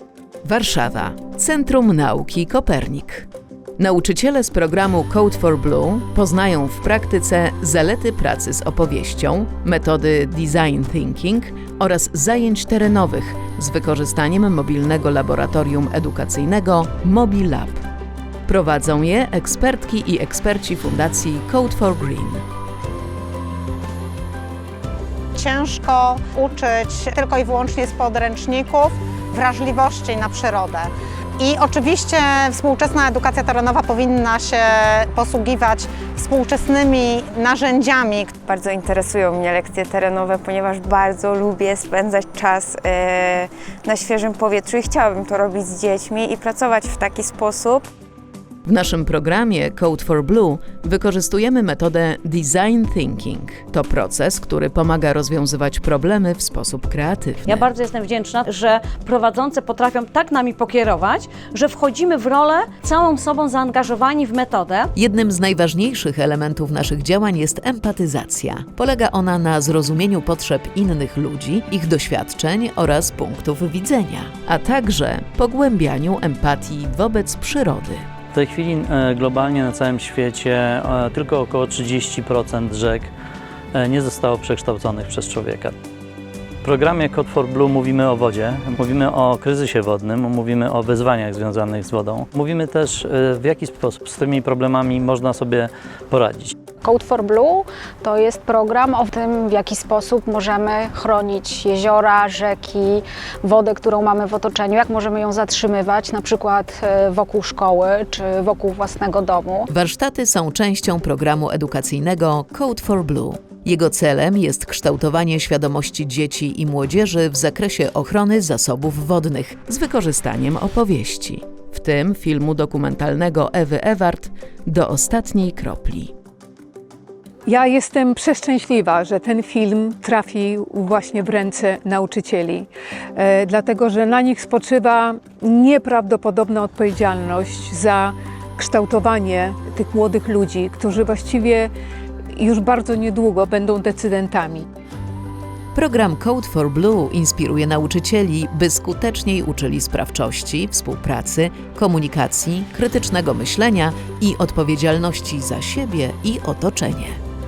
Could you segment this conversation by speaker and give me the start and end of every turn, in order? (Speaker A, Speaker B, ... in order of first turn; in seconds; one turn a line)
Speaker A: 0.5-3.3
Speaker A: 3.8-17.8
Speaker A: 18.5-22.4
Speaker B: 25.4-38.3
Speaker C: 38.4-47.9
Speaker A: 48.7-57.7
Speaker D: 57.5-64.9
Speaker A: 65.0-78.0
Speaker E: 78.3-83.1
Speaker E: 83.7-85.8
Speaker E: 86.6-96.5
Speaker F: 96.8-109.7
Speaker A: 109.7-126.1
Speaker G: 127.5-141.7
Speaker G: 142.4-144.7
Speaker A: 145.8-157.2